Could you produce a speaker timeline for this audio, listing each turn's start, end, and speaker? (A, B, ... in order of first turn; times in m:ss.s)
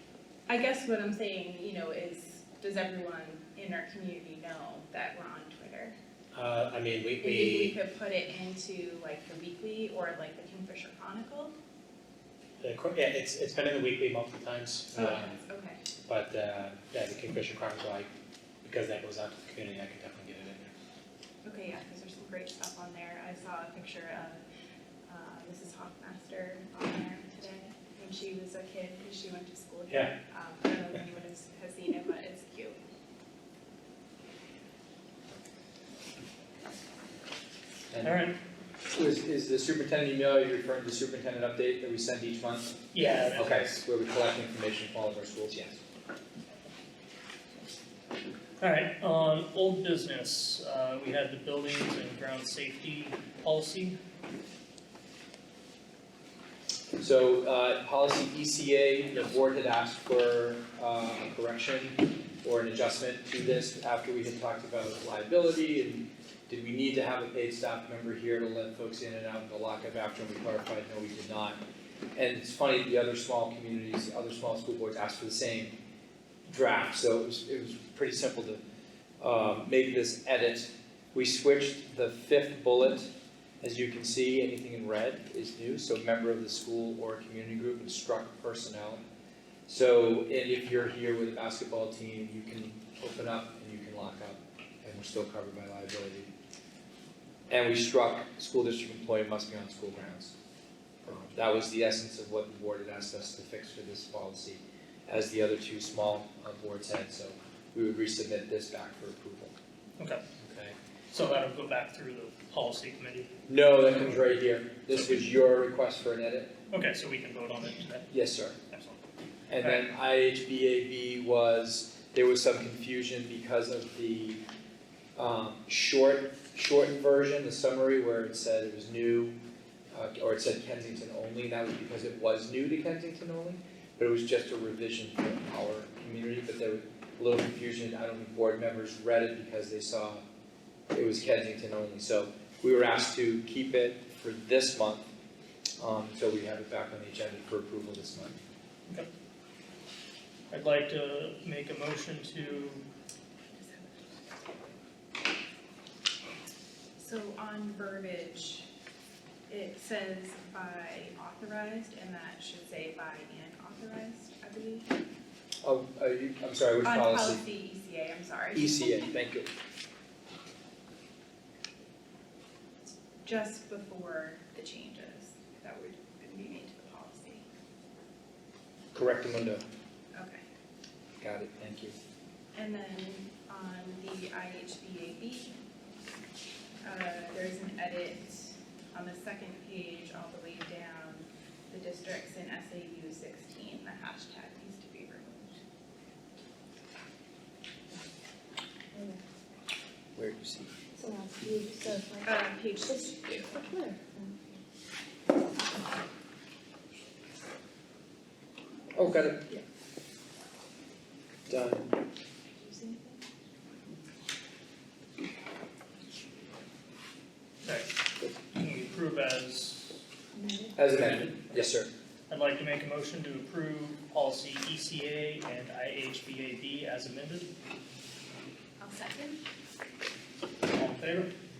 0:00.5-0:05.9 A
0:06.3-0:07.8 B
0:07.2-0:11.5 A
0:12.6-0:15.4 B
0:14.9-0:15.8 A
0:16.1-0:18.1 B
0:18.6-0:20.7 B
0:21.4-0:24.4 A
0:25.1-0:32.8 A
0:29.9-0:30.2 B
0:37.9-0:38.3 C
0:38.0-0:38.4 D
0:38.9-0:45.8 C
0:42.9-0:43.8 D
0:48.6-0:54.0 D
0:57.0-1:11.6 C
1:12.1-1:15.8 C
1:16.5-1:18.6 C
1:19.2-1:29.0 C
1:29.7-1:36.3 C
1:37.5-1:40.3 C
1:41.0-1:49.5 C
1:50.0-1:50.2 D
1:50.4-1:50.7 C
1:51.1-1:53.3 D
1:53.5-1:56.5 C
1:56.7-1:58.1 D
1:58.1-1:58.6 C
1:58.7-1:59.0 D
1:59.5-2:04.4 C
2:05.2-2:09.4 C
2:09.9-2:20.2 C
2:20.9-2:25.1 C
2:25.8-2:28.4 C
2:30.5-2:32.8 D
2:33.5-2:34.7 A
2:37.0-2:38.7 A
2:39.5-2:44.9 A
2:45.6-2:47.4 C
2:46.8-2:49.0 A
2:48.5-2:49.5 C
2:53.2-2:57.4 A
2:58.9-2:59.6 C
3:00.1-3:00.4 A
3:01.2-3:01.9 C
3:02.5-3:05.6 A
3:06.8-3:15.6 A
3:18.9-3:19.2 E
3:20.2-3:20.8 C
3:21.0-3:22.3 E
3:22.2-3:23.6 A
3:23.0-3:24.4 E
3:28.9-3:29.6 C
3:31.5-3:31.9 C
3:32.6-3:33.2 A
3:37.6-3:37.9 D
3:38.5-3:40.0 D
3:40.8-3:41.9 C
3:40.9-3:41.7 D
3:42.3-3:47.5 D
3:48.8-3:49.4 A
3:50.7-3:51.3 D